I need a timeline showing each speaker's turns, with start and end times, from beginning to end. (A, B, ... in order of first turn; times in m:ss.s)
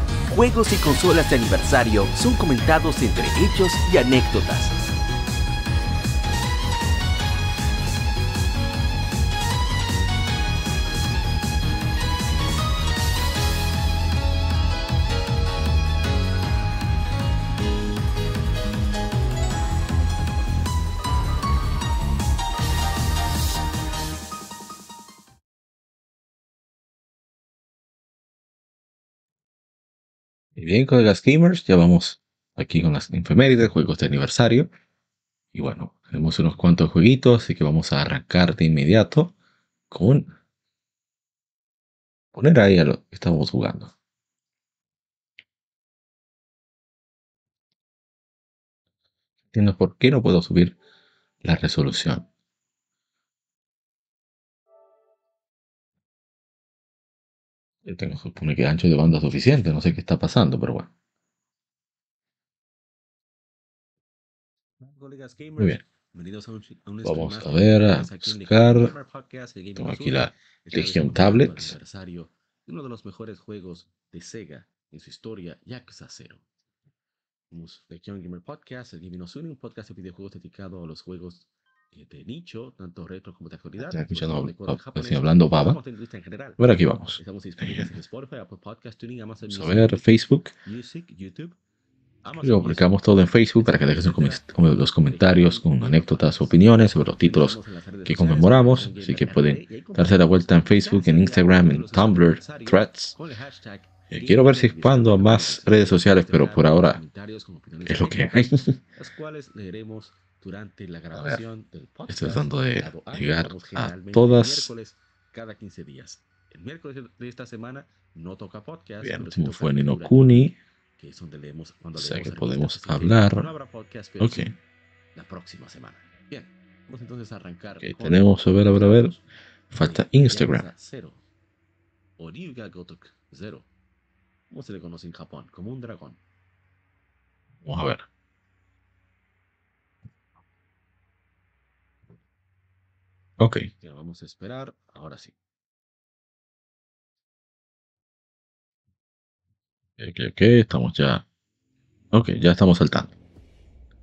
0:00.3-0:04.8 A
0:30.6-0:34.7 B
0:35.5-0:39.3 B
0:39.9-0:40.3 B
0:42.3-0:43.9 B
0:49.5-0:50.7 B
0:51.4-0:52.3 B
0:57.9-1:00.9 B
1:04.8-1:16.4 C
1:07.0-1:08.9 B
1:09.8-1:11.7 B
1:17.5-1:31.6 C
1:23.8-1:25.8 B
1:26.6-1:27.9 B
1:29.5-1:30.5 B
1:32.2-2:04.6 C
1:32.4-1:43.2 B
1:44.1-1:47.0 B
1:47.9-1:48.8 B
1:51.1-1:51.4 B
1:52.1-1:54.7 B
1:59.0-2:00.6 B
2:02.0-2:03.5 B
2:04.2-2:04.5 B
2:05.2-2:09.2 C
2:07.8-2:09.2 B
2:09.7-2:10.7 B
2:09.7-2:11.2 C
2:12.2-2:13.7 C
2:14.5-2:16.2 C
2:17.7-2:18.0 B
2:23.4-2:23.7 B
2:23.8-2:25.4 C
2:30.0-2:31.2 B
2:32.1-2:33.1 B